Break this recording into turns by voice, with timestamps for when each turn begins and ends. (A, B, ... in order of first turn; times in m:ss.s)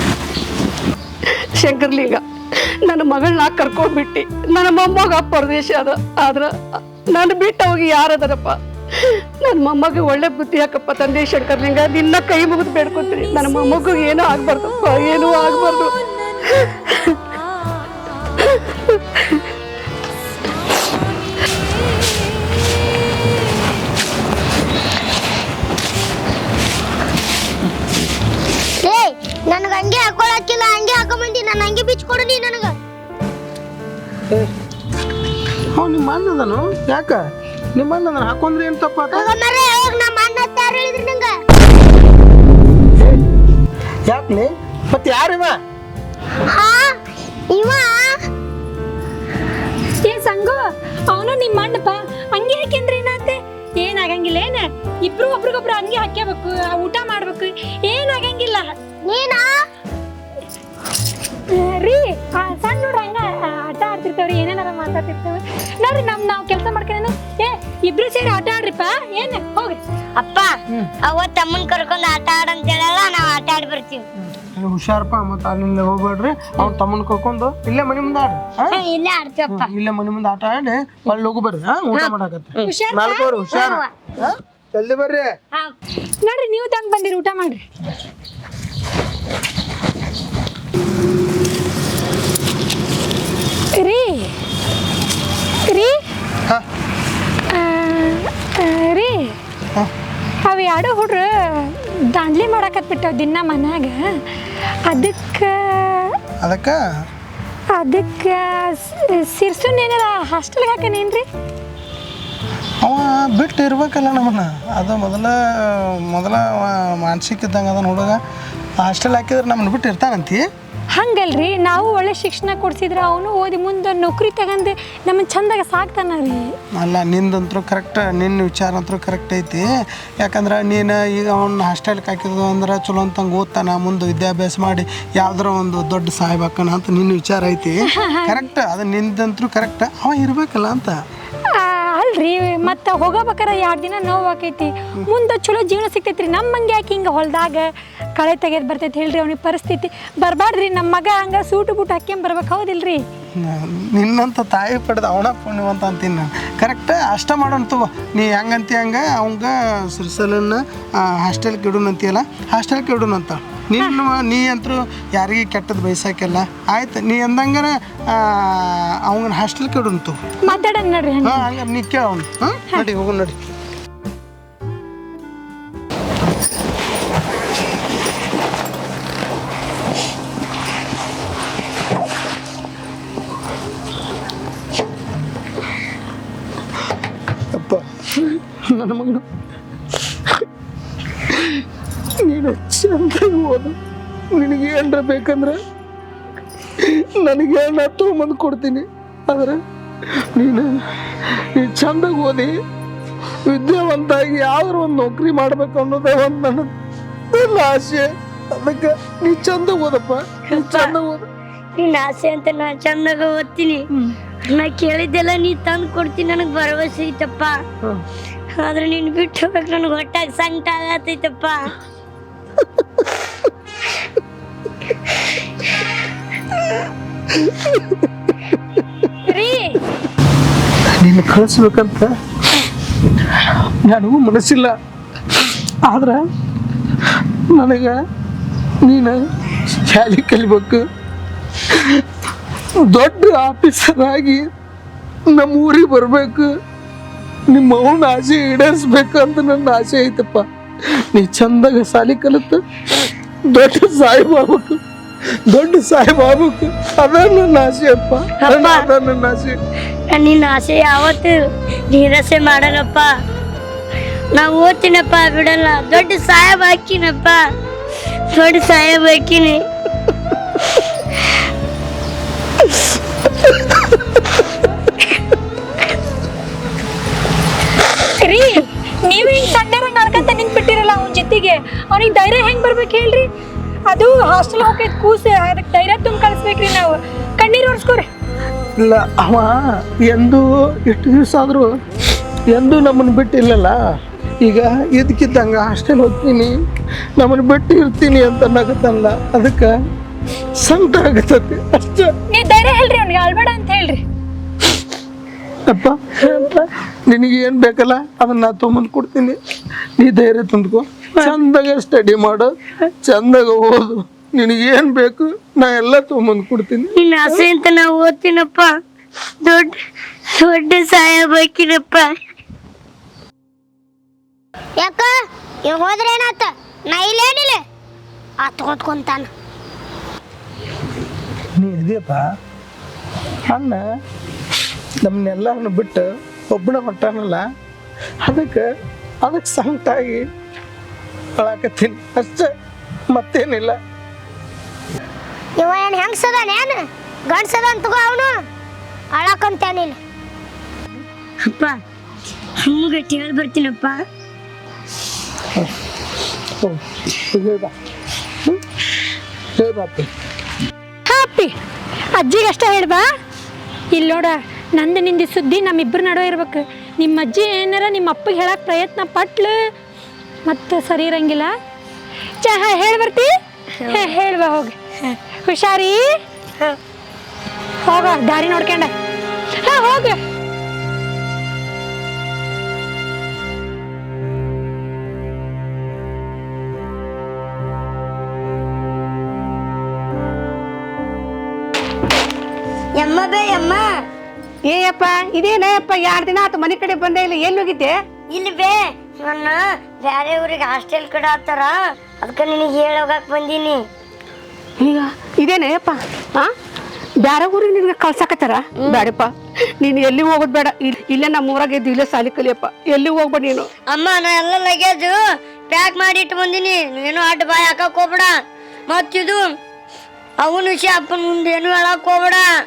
0:01.3-0:17.2 A
0:18.4-0:19.4 A
0:28.8-0:32.8 B
0:35.8-0:37.2 C
0:37.8-0:39.3 C
0:39.1-0:41.4 B
0:44.1-0:45.6 C
0:46.5-0:47.0 B
0:47.5-0:48.2 B
0:50.0-0:58.7 D
0:59.0-0:59.6 B
1:01.5-1:09.8 D
1:10.2-1:14.1 E
1:14.2-1:18.8 C
1:18.7-1:19.7 E
1:19.5-1:25.3 C
1:21.9-1:22.8 E
1:22.6-1:23.3 D
1:23.5-1:23.8 E
1:26.2-1:27.6 D
1:33.8-1:34.3 D
1:35.7-1:36.0 D
1:37.5-1:39.3 D
1:40.4-1:44.1 D
1:44.8-1:46.2 D
1:46.4-1:46.8 C
1:47.8-1:51.2 D
1:52.8-1:58.2 C
1:58.8-2:00.5 C
2:00.9-2:06.6 D
2:06.7-2:09.7 C
2:10.2-2:21.0 C
2:17.8-2:18.5 D
2:21.5-2:33.0 D
2:33.4-2:50.6 C
2:50.4-2:51.5 D
2:51.2-2:53.5 C
3:07.5-3:09.3 C
3:11.3-3:11.7 C
3:12.2-3:13.8 C
3:14.3-3:15.6 C
3:16.8-3:19.6 C
3:20.2-3:22.5 C
3:23.5-3:26.7 C
3:27.3-3:31.2 C
3:30.5-3:31.0 E
3:31.8-3:33.9 E
3:34.5-3:37.6 E
3:38.6-3:41.7 E
3:47.5-3:47.8 C
3:49.2-3:49.8 D
3:51.0-3:52.2 C
3:53.2-3:54.8 C
3:55.8-3:56.2 C
3:57.0-3:58.0 C
3:58.8-4:00.8 C
4:01.7-4:02.1 C
4:02.8-4:04.5 C
4:05.3-4:06.5 C
4:07.5-4:12.6 C
4:13.5-4:14.8 C
4:15.5-4:19.6 C
4:18.4-4:18.9 E
4:20.1-4:23.1 E
4:24.3-4:27.4 E
4:28.3-4:29.7 E
4:38.1-4:43.3 D
4:43.9-4:48.1 D
4:48.8-4:51.7 C
4:52.5-4:53.8 C
4:54.4-4:56.6 C
4:57.2-4:59.7 C
5:00.6-5:02.2 C
5:02.3-5:04.0 D
5:05.7-5:09.4 C
5:10.0-5:17.0 C
5:17.0-5:18.7 E
5:19.4-5:22.2 E
5:24.8-5:25.1 B
5:25.6-5:27.6 B
5:28.4-5:29.3 B
5:31.6-5:32.3 C
5:33.5-5:33.8 C
5:35.0-5:37.5 C
5:38.2-5:38.7 C
5:39.2-5:40.3 C
5:41.4-5:42.5 C
5:43.1-5:43.8 C
5:45.6-5:48.4 B
5:49.1-5:50.0 B
5:51.4-5:51.8 E
5:52.6-5:54.0 E
5:56.6-5:57.7 C
5:59.6-6:00.1 C
6:01.1-6:01.6 D
6:02.1-6:03.1 D
6:03.9-6:09.7 D
6:10.5-6:11.6 D
6:12.4-6:13.3 D
6:13.8-6:14.1 E
6:13.8-6:14.8 D
6:15.4-6:16.2 D
6:17.8-6:18.9 D
6:19.6-6:20.2 D
6:33.0-6:33.9 E
6:34.7-6:38.0 A
6:38.3-6:43.9 E
6:44.8-6:46.5 A
6:47.2-6:53.7 A
6:48.8-6:49.1 E
6:53.9-6:59.6 E
7:00.4-7:02.5 E